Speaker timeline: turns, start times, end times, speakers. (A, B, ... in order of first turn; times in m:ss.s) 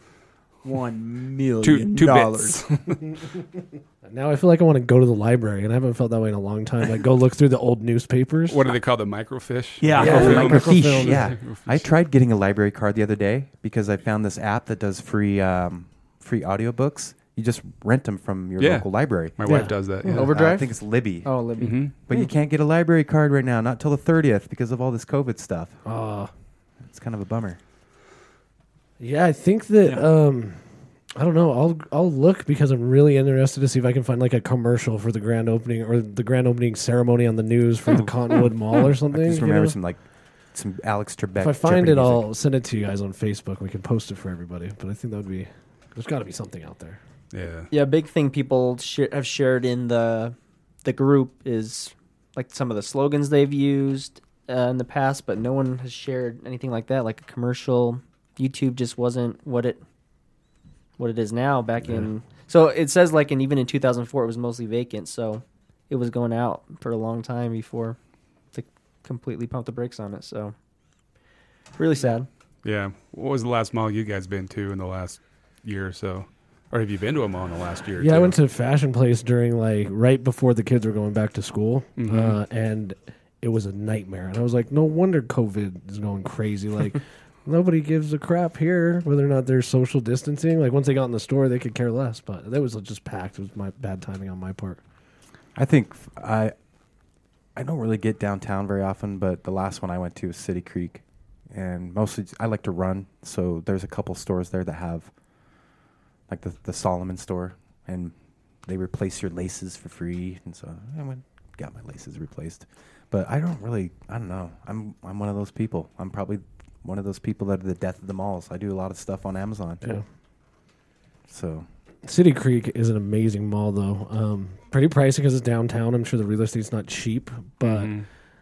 0:00.6-0:02.6 A
0:01.6-0:03.1 B
0:04.0-0:08.7 C
0:08.5-0:11.9 B
0:09.8-0:10.6 A
0:10.0-0:11.3 C
0:10.0-0:19.4 D
0:18.6-0:20.3 B
0:19.4-0:20.3 C
0:20.1-0:21.9 E
0:20.2-0:21.3 D
0:21.6-0:21.9 B
0:22.0-0:25.8 D
0:25.8-0:26.3 C
0:26.9-0:27.6 D
0:29.0-0:30.6 C
0:31.2-0:39.8 C
0:39.1-0:42.3 D
0:41.4-0:47.0 C
0:47.3-0:47.7 B
0:47.7-0:59.8 E
1:01.0-1:08.0 E
1:08.5-1:10.5 E
1:11.8-1:12.3 E
1:12.6-1:18.4 B
1:18.0-1:34.8 C
1:22.0-1:22.4 B
1:35.6-1:36.5 D
1:37.6-1:45.1 D
1:46.3-1:48.1 D
1:48.6-2:00.0 D
2:01.3-2:01.7 D
2:02.0-2:07.9 C
2:07.6-2:08.1 B